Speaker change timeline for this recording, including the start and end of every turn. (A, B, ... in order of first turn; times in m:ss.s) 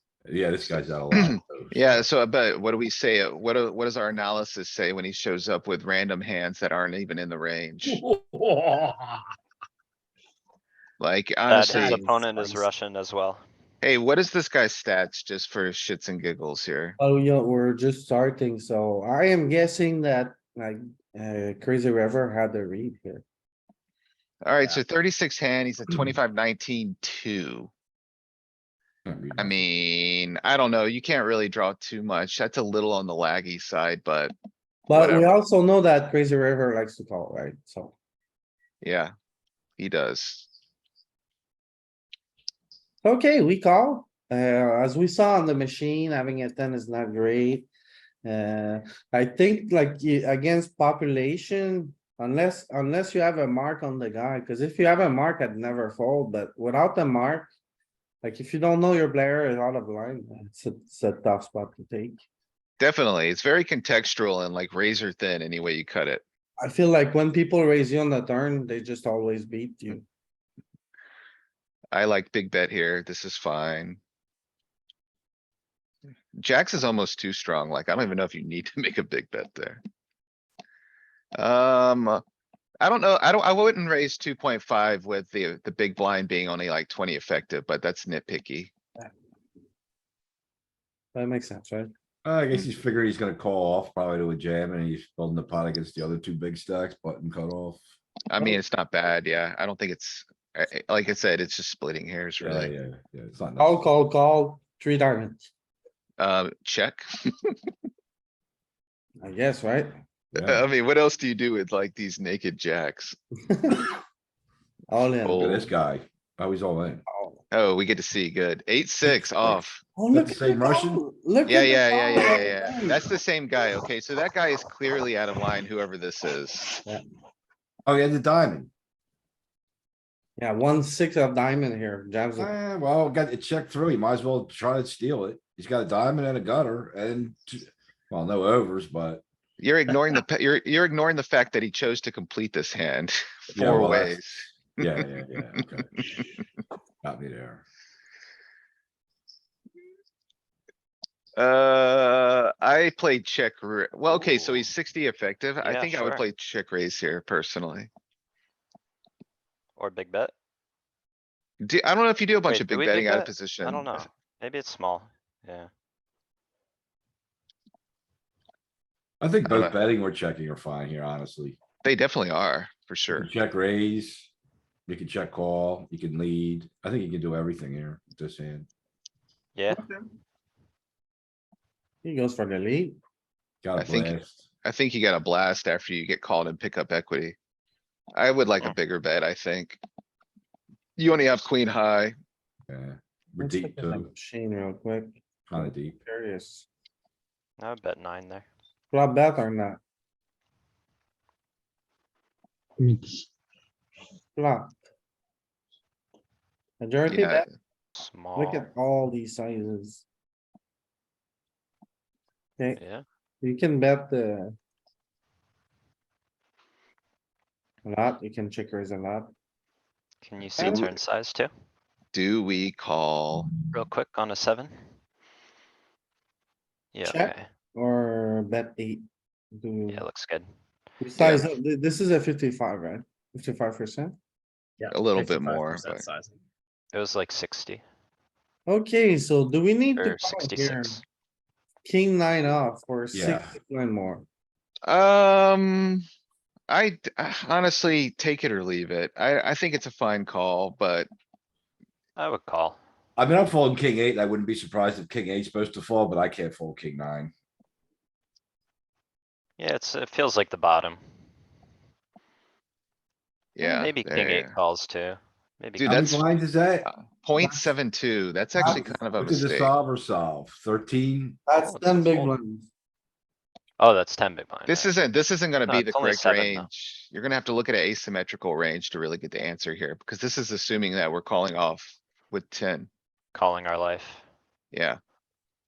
0:00.2-0:02.0 A
0:01.1-0:08.0 B
0:07.8-0:09.3 C
0:11.0-0:12.0 B
0:11.5-0:13.4 D
0:11.7-0:12.6 C
0:13.8-0:17.0 B
0:17.0-0:23.2 E
0:24.4-0:27.7 B
0:29.0-0:29.6 A
0:29.4-0:34.3 B
0:34.9-0:37.9 E
0:34.9-0:35.4 B
0:38.8-0:39.1 B
0:39.8-0:40.5 B
0:43.0-0:47.7 E
0:48.2-0:57.5 E
0:58.2-1:02.2 E
1:02.8-1:06.2 B
1:06.6-1:10.0 E
1:11.9-1:14.0 B
1:16.3-1:19.8 B
1:21.4-1:22.2 B
1:22.8-1:28.7 B
1:31.1-1:31.9 E
1:32.2-1:37.8 A
1:38.3-1:42.7 B
1:42.4-1:43.9 A
1:43.6-1:45.5 E
1:46.2-1:47.1 B
1:49.2-1:50.0 E
1:50.3-1:50.6 A
1:50.4-1:53.2 B
1:53.5-1:53.9 E
1:54.9-1:55.7 E
1:55.2-1:57.0 A
1:55.2-1:55.5 B
1:57.1-1:57.4 E
1:57.5-1:59.8 B
1:59.1-1:59.5 A
2:00.0-2:03.1 E
2:00.1-2:01.0 A
2:01.4-2:06.8 B
2:07.8-2:08.7 A
2:10.4-2:12.5 E
2:12.4-2:19.2 A
2:19.6-2:25.0 B
2:23.5-2:26.2 A
2:26.0-2:26.2 B
2:27.0-2:27.6 A
2:31.4-2:37.9 B
2:34.1-2:34.7 D
2:35.6-2:36.2 D
2:39.8-2:40.3 D
2:41.6-2:44.0 B
2:42.4-2:45.7 D
2:49.2-2:51.6 A
2:49.4-2:49.8 B
2:51.8-2:53.3 B
2:53.1-2:54.3 A
2:54.9-2:58.7 A
2:59.6-2:59.8 D
2:59.7-3:00.0 E
3:02.0-3:03.0 E
3:03.6-3:04.4 A
3:03.8-3:07.4 B
3:08.1-3:09.8 B
3:11.0-3:12.1 B
3:12.7-3:14.1 A
3:13.4-3:16.7 E
3:15.5-3:16.0 A
3:17.6-3:18.5 D
3:18.9-3:19.8 E
3:24.4-3:24.7 E
3:26.8-3:27.5 E
3:27.0-3:27.5 B
3:28.0-3:28.7 D
3:28.4-3:30.0 E
3:32.8-3:33.0 D
3:33.4-3:34.5 E
3:37.8-3:39.3 E
3:40.2-3:41.5 D
3:40.6-3:40.9 E
3:42.1-3:43.5 B
3:43.6-3:44.7 D
3:46.9-3:47.4 D
3:47.0-3:49.0 E
3:49.6-3:50.0 E
3:49.9-3:50.5 D
3:51.0-3:54.2 E
3:51.2-3:51.5 B
3:54.8-3:56.4 C
3:54.9-3:56.0 B
3:56.9-3:57.8 D
3:58.6-4:01.0 E
4:00.0-4:01.0 D
4:01.8-4:04.2 E
4:03.1-4:03.5 A
4:04.8-4:06.0 B
4:06.7-4:11.1 B
4:12.2-4:12.8 D
4:13.2-4:17.3 A
4:19.6-4:21.0 D
4:23.6-4:24.6 B
4:23.6-4:26.0 D
4:25.8-4:26.2 B
4:25.8-4:26.9 A
4:26.8-4:29.7 B
4:27.4-4:27.7 E
4:28.6-4:29.0 E
4:28.6-4:31.4 A
4:31.5-4:32.7 E
4:31.5-4:32.4 D
4:33.8-4:34.9 D
4:34.7-4:42.9 B
4:35.6-4:36.7 D
4:43.3-4:44.2 D
4:44.7-4:45.0 B